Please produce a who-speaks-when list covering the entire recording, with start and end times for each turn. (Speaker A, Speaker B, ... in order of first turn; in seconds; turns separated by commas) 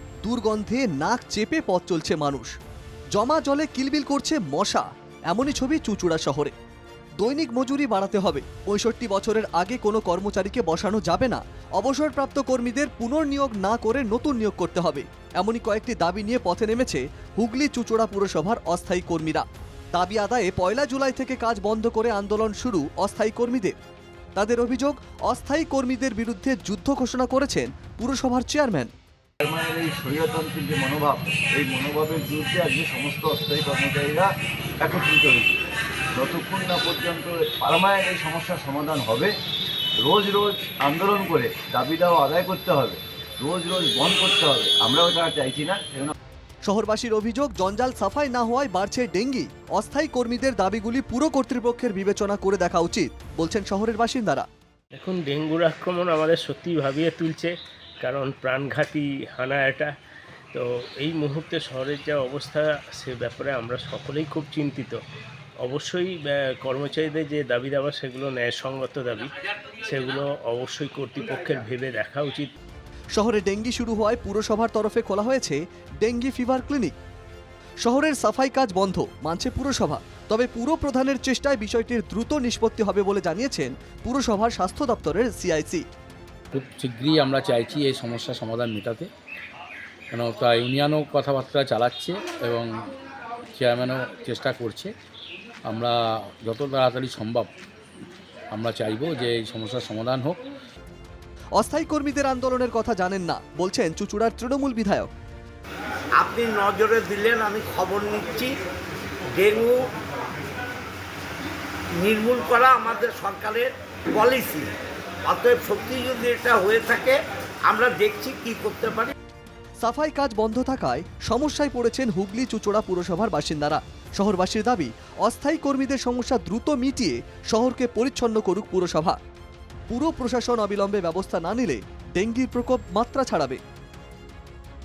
Speaker A: 0.2-2.5, Speaker A: 3.1-6.5, Speaker A: 7.2-23.8, Speaker A: 24.4-28.9, Speaker B: 29.4-35.6, Speaker B: 36.1-39.3, Speaker B: 40.0-46.1, Speaker A: 46.7-54.5, Speaker C: 55.0-59.9, Speaker C: 60.5-65.0, Speaker C: 65.6-72.5, Speaker A: 73.1-76.9, Speaker A: 77.8-85.8, Speaker D: 86.5-89.1, Speaker D: 90.1-92.7, Speaker D: 93.5-94.9, Speaker D: 95.7-97.5, Speaker D: 98.5-100.4, Speaker A: 101.6-105.1, Speaker E: 106.2-108.5, Speaker E: 109.3-109.8, Speaker E: 111.9-114.7, Speaker E: 115.2-119.1, Speaker A: 119.8-129.2, Speaker A: 129.9-133.6